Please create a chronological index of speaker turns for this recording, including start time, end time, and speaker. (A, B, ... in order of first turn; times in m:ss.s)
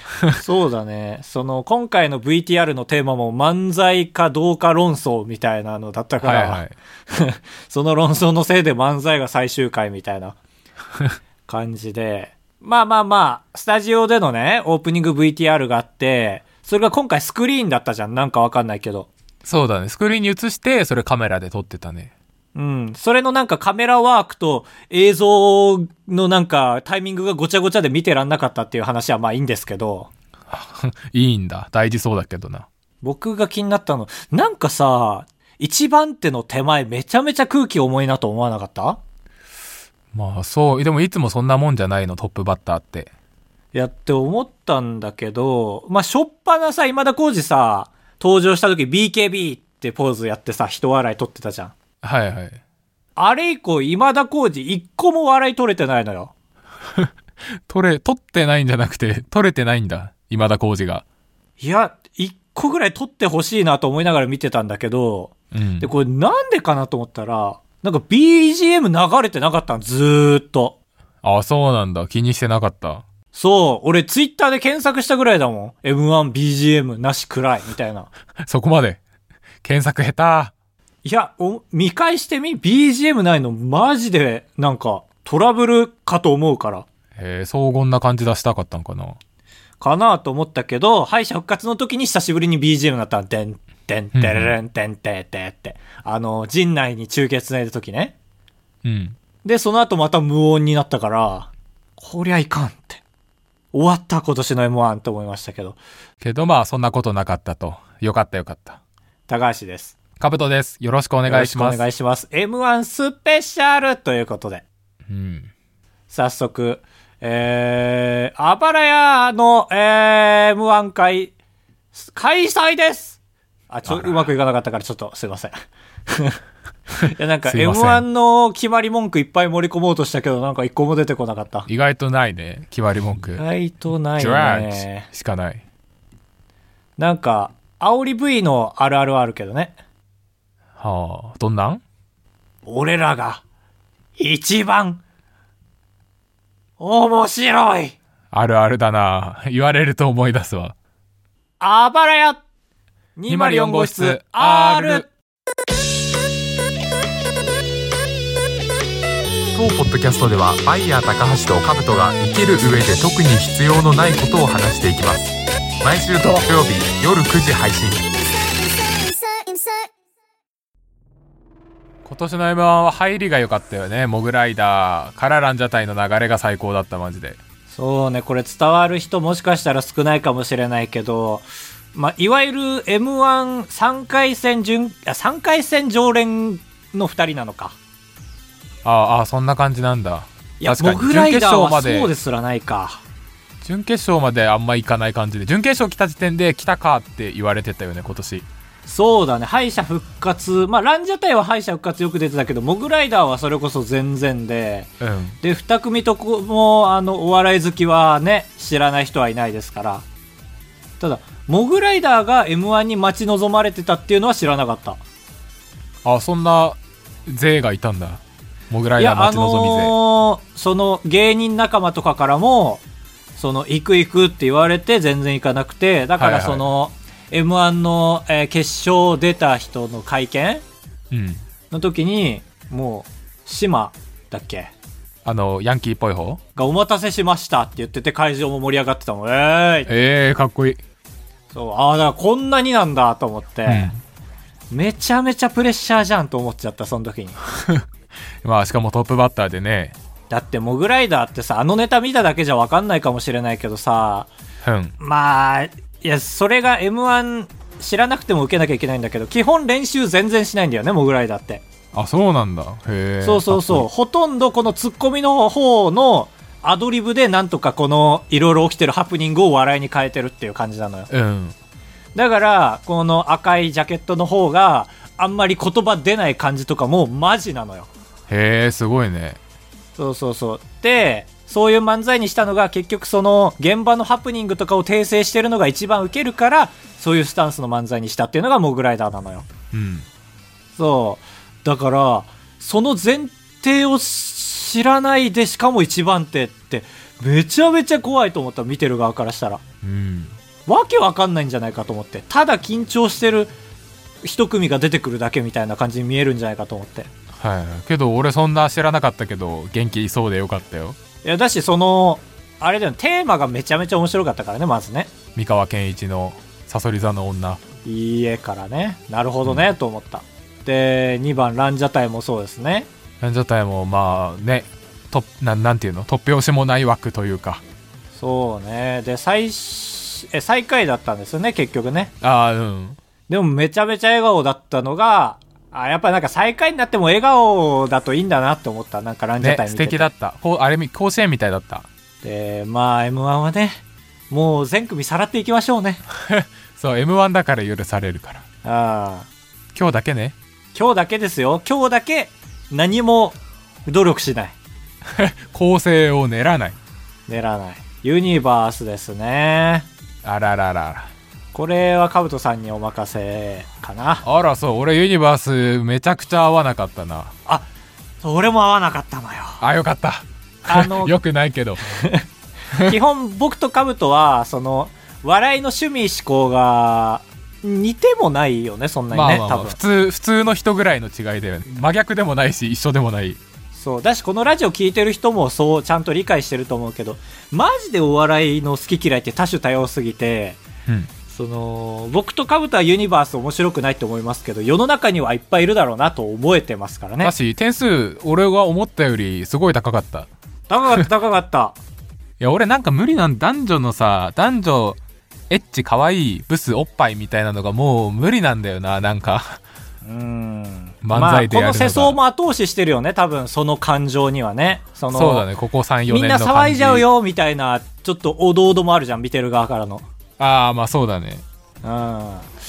0:00.3-0:10.4 A
0:06.2-0:06.8 B
0:11.5-0:19.1 A
0:19.4-0:22.1 B
0:22.6-0:30.1 A
0:30.5-0:32.7 B
0:33.0-0:39.0 A
0:40.1-0:43.1 B
0:43.7-0:51.7 A
0:52.0-0:52.6 B
0:53.2-0:56.3 A
0:57.7-1:01.0 B
1:01.6-1:10.8 A
1:05.5-1:05.9 B
1:11.2-1:13.0 B
1:13.3-1:18.1 A
1:18.4-1:19.0 B
1:19.6-1:20.5 B
1:21.0-1:26.9 A
1:27.2-1:29.2 B
1:29.8-1:38.2 A
1:34.1-1:34.6 B
1:38.8-1:39.2 B
1:39.4-1:43.0 A
1:43.7-1:45.8 A
1:46.2-1:48.8 B
1:49.3-1:50.0 A
1:50.2-1:51.8 B
1:51.2-1:54.6 A
1:55.1-1:55.5 B
1:56.1-2:01.3 A
2:01.9-2:03.2 A
2:03.7-2:05.5 A
2:03.9-2:04.3 B
2:06.1-2:06.4 A
2:07.0-2:11.7 A
2:07.4-2:08.0 B
2:11.7-2:13.4 B
2:13.3-2:15.1 A
2:14.2-2:15.6 B
2:17.0-2:19.8 A
2:20.8-2:21.8 B
2:22.6-2:23.4 A
2:24.2-2:25.0 A
2:26.8-2:28.0 A
2:28.3-2:30.8 B
2:31.6-2:32.4 A
2:33.2-2:35.1 A
2:33.3-2:35.1 B
2:39.5-2:48.1 B
2:52.0-2:57.4 B
2:57.7-3:07.8 A
3:08.8-3:12.1 B
3:10.6-3:13.0 A
3:13.6-3:18.5 B
3:18.9-3:24.9 A
3:25.0-3:25.4 B
3:25.4-3:30.0 A
3:31.0-3:35.0 A
3:36.0-3:39.9 B
3:39.0-3:42.8 A
3:43.4-3:50.6 A
3:46.2-3:46.6 B
3:51.1-3:51.4 B
3:51.7-3:54.7 A
3:55.2-3:56.4 B
3:56.6-3:59.9 A
3:59.9-4:00.8 B
4:01.5-4:03.9 A
4:03.7-4:04.0 B
4:04.7-4:07.4 A
4:07.5-4:07.8 B
4:08.4-4:10.0 B
4:10.3-4:14.3 A
4:14.6-4:15.0 B
4:15.0-4:21.6 A
4:21.9-4:23.9 B
4:23.2-4:31.1 A
4:31.1-4:31.5 B
4:32.1-4:37.9 A
4:38.3-4:39.4 B
4:40.0-4:49.5 A
4:49.7-4:50.1 B
4:50.8-4:59.6 A
4:59.8-5:00.4 B
5:00.7-5:03.5 A
5:04.2-5:07.1 A
5:07.3-5:11.0 B
5:11.2-5:15.1 A
5:15.3-5:17.6 B
5:17.8-5:22.9 A
5:23.2-5:27.6 B
5:28.1-5:32.1 A
5:32.2-5:33.0 B
5:33.3-5:40.1 A
5:39.4-5:41.9 B
5:42.2-5:46.0 A
5:46.1-5:48.4 B
5:48.6-5:49.3 A
5:49.7-5:50.4 B
5:50.8-5:54.6 A
5:55.1-5:56.8 B
5:57.3-5:59.9 A
6:00.2-6:01.1 B
6:01.5-6:04.2 A
6:04.2-6:07.3 B
6:08.2-6:09.6 A
6:09.6-6:11.9 B
6:10.7-6:11.2 A
6:11.9-6:19.8 A
6:19.1-6:23.4 B
6:23.7-6:30.6 A
6:31.3-6:37.3 A
6:37.2-6:40.3 B
6:40.7-6:41.8 A
6:42.4-6:45.0 B
6:45.5-6:49.6 B
6:50.0-6:55.4 A
6:51.0-6:52.2 B
6:55.1-6:57.1 B
6:56.1-7:00.0 A
7:00.4-7:01.4 B
7:01.8-7:02.5 A